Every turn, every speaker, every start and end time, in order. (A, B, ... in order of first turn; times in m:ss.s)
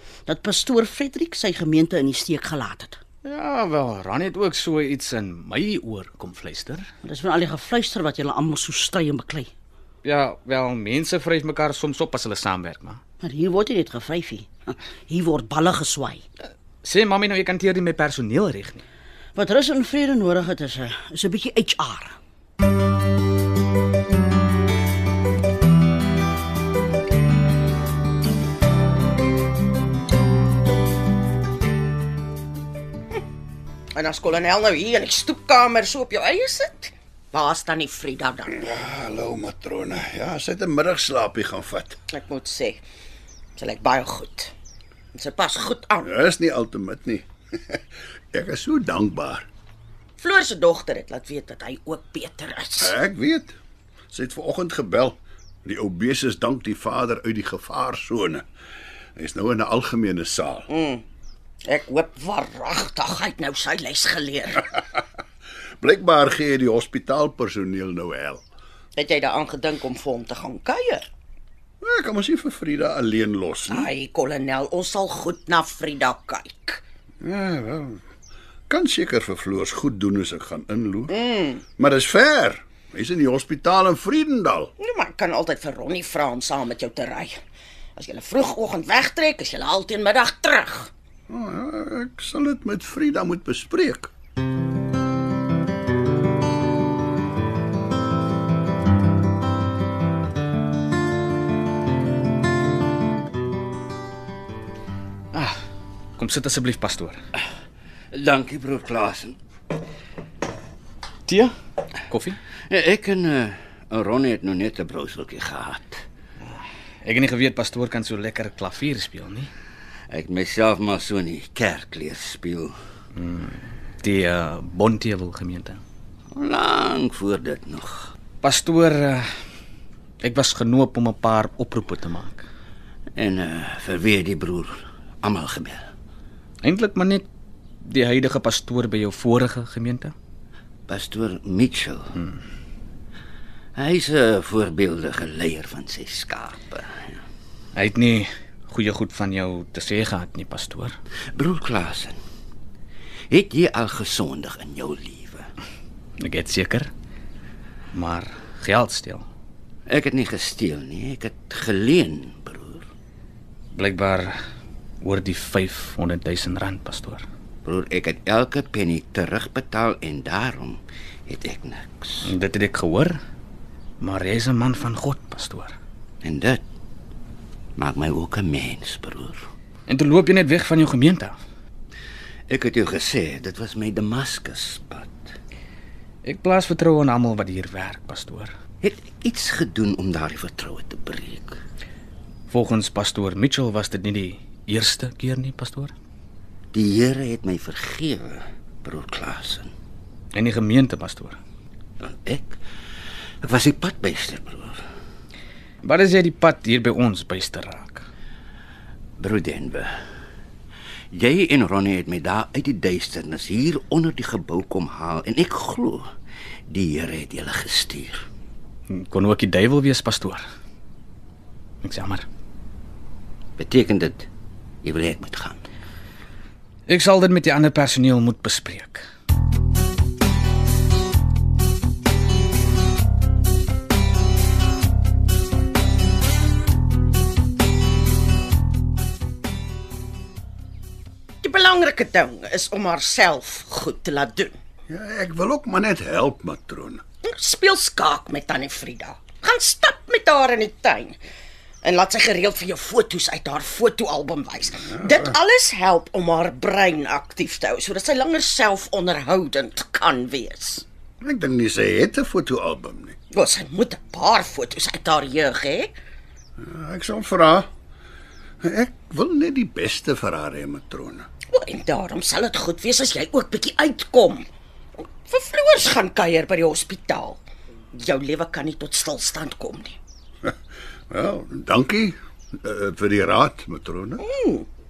0:00.3-0:03.0 A
0:03.2-0:06.9 B
0:07.0-0:09.5 A
0:10.0-0:13.0 B
0:13.2-0:16.2 A
0:16.8-0:18.8 B
0:19.4-0:22.2 A
0:34.0-0:38.6 C
0:38.6-0:42.0 D
0:42.1-0:42.8 C
0:43.6-0:44.5 C
0:45.2-0:46.1 C
0:46.0-0:47.8 D
0:48.3-0:49.4 D
0:50.2-0:53.0 C
0:52.8-0:53.6 D
0:54.1-0:58.4 D
0:59.2-1:00.7 D
1:00.7-1:01.0 C
1:01.7-1:04.7 C
1:05.8-1:08.4 D
1:09.0-1:11.0 C
1:11.8-1:13.9 D
1:13.7-1:16.8 C
1:17.2-1:18.0 D
1:18.7-1:21.2 D
1:21.1-1:21.6 C
1:21.8-1:24.7 D
1:24.8-1:27.4 C
1:28.0-1:30.9 C
1:31.3-1:34.1 D
1:45.3-1:45.6 B
1:46.2-1:47.2 B
1:48.1-1:49.4 E
1:51.3-1:51.5 B
1:52.1-1:52.4 B
1:52.7-1:56.0 E
1:57.0-1:59.5 B
2:00.1-2:02.8 E
2:03.2-2:05.8 B
2:06.3-2:08.1 E
2:08.4-2:09.3 B
2:10.2-2:12.4 B
2:13.2-2:15.9 E
2:16.6-2:17.3 B
2:17.8-2:20.1 B
2:20.9-2:22.2 E
2:23.8-2:26.9 E
2:27.8-2:31.0 B
2:31.3-2:32.2 E
2:33.3-2:35.5 E
2:36.2-2:36.9 B
2:37.9-2:39.3 B
2:39.9-2:42.8 E
2:43.7-2:44.4 B
2:45.0-2:47.3 B
2:47.6-2:52.3 E
2:52.2-2:53.2 B
2:54.0-2:55.8 B
2:56.2-2:56.6 E
2:57.8-2:59.4 E
2:59.9-3:01.4 B
3:02.5-3:05.3 E
3:06.2-3:08.5 B
3:08.8-3:11.6 E
3:12.5-3:15.9 B
3:16.7-3:19.7 E
3:20.3-3:21.4 B
3:22.0-3:22.6 E
3:23.4-3:24.8 E
3:25.8-3:28.1 B
3:29.2-3:29.9 E
3:31.1-3:36.0 E
3:36.7-3:38.2 E
3:38.9-3:40.4 B
3:41.8-3:42.2 B
3:43.6-3:44.3 E
3:44.8-3:45.6 E
3:46.9-3:49.0 B
4:01.4-4:04.5 C
4:04.9-4:07.0 D
4:07.2-4:11.2 C
4:11.8-4:20.8 C
4:21.2-4:23.2 D
4:23.3-4:25.9 C
4:26.6-4:27.7 D
4:28.6-4:31.3 D
4:31.5-4:34.5 C
4:35.0-4:37.4 C
4:37.9-4:40.0 C
4:41.1-4:44.2 D
4:44.2-4:44.7 C